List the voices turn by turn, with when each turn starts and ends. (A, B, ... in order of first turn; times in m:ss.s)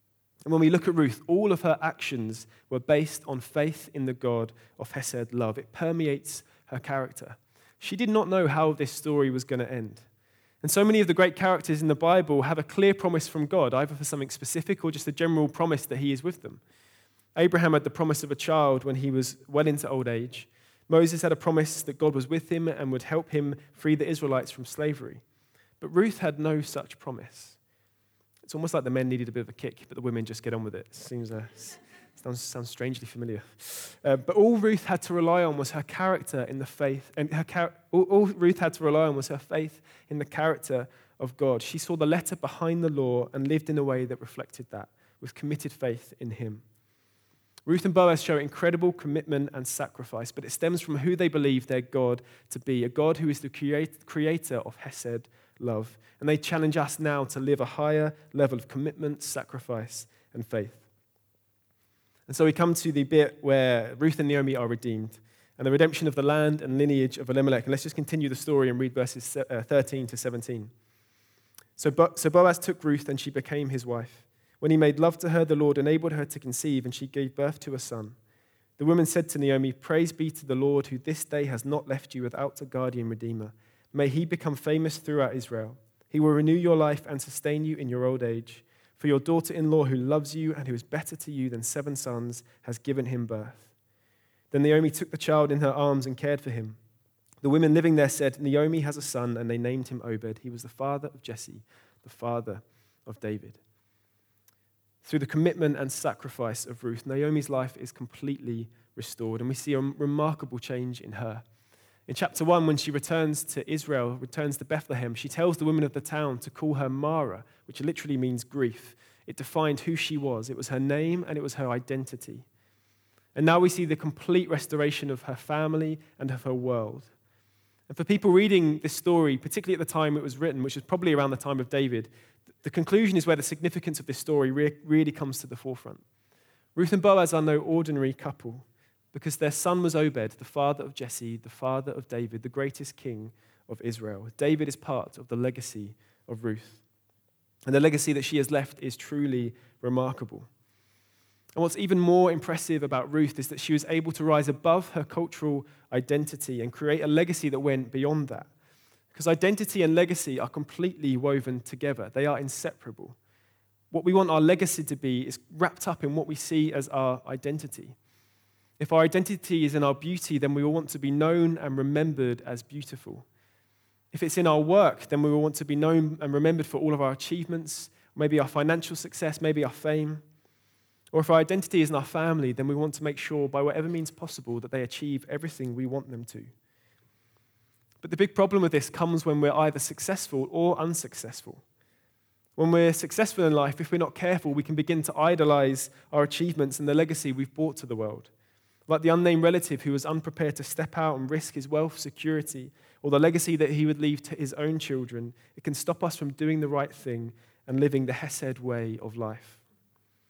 0:00.4-0:10.0 A
0:10.6-0:16.6 A
0:17.4-0:25.2 A
0:25.8-0:27.6 A
0:28.4-0:46.6 A
0:47.7-1:00.8 A
1:02.3-1:10.7 A
1:11.8-1:18.2 A
1:18.8-1:33.7 A
1:34.5-1:36.8 A
1:37.4-1:43.6 A
1:45.0-1:51.4 A
1:52.1-2:02.4 A
2:03.3-2:07.1 A
2:07.9-2:12.1 A
2:12.6-2:16.0 A
2:16.7-2:26.8 A
2:27.7-2:30.5 A
2:31.6-2:38.5 A
2:39.1-2:43.2 A
2:43.9-2:48.0 A
2:48.8-2:53.2 A
2:54.1-3:00.2 A
3:01.1-3:06.5 A
3:08.0-3:11.6 A
3:12.6-3:18.3 A
3:18.9-3:29.6 A